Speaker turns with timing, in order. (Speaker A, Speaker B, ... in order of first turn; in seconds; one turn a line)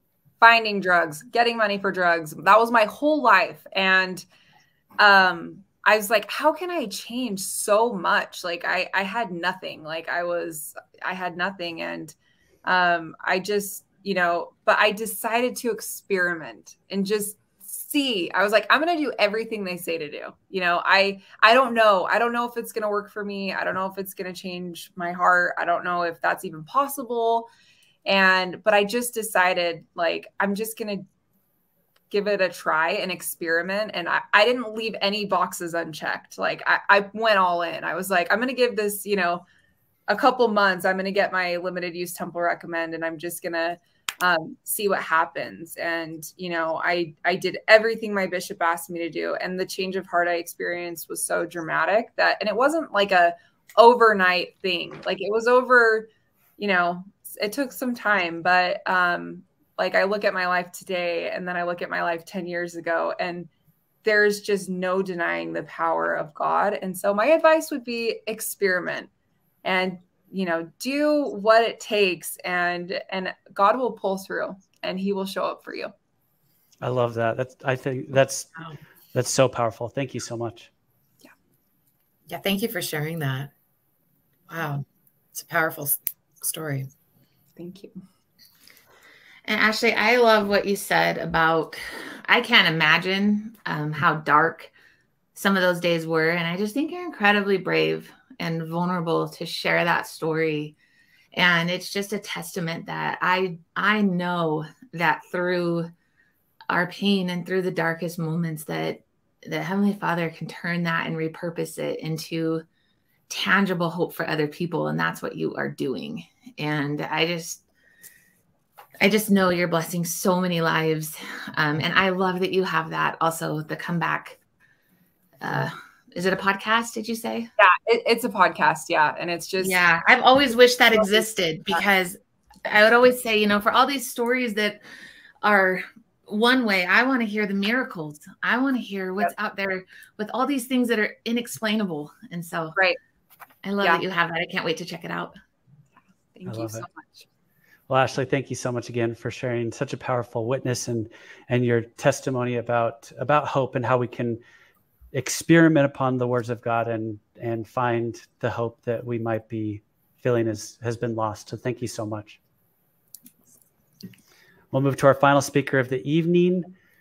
Speaker A: 0.4-4.2
Speaker A: 5.0-27.5
Speaker A: 28.0-31.0
Speaker A: 32.1-39.4
Speaker A: 40.1-63.5
Speaker A: 64.0-69.1
Speaker A: 69.6-75.9
Speaker B: 76.8-78.5
Speaker B: 79.1-80.7
Speaker C: 82.3-83.5
Speaker C: 84.5-86.9
Speaker A: 87.6-88.0
Speaker D: 89.5-94.7
Speaker D: 95.3-100.8
Speaker D: 101.3-105.9
Speaker D: 106.7-112.6
Speaker D: 113.3-117.6
Speaker D: 119.0-124.4
Speaker D: 125.4-127.5
Speaker A: 127.6-129.8
Speaker D: 129.6-134.8
Speaker A: 130.9-131.2
Speaker D: 135.4-142.8
Speaker D: 143.6-145.3
Speaker A: 146.3-147.2
Speaker B: 146.4-146.8
Speaker B: 147.9-154.4
Speaker B: 155.1-162.4
Speaker B: 164.7-166.7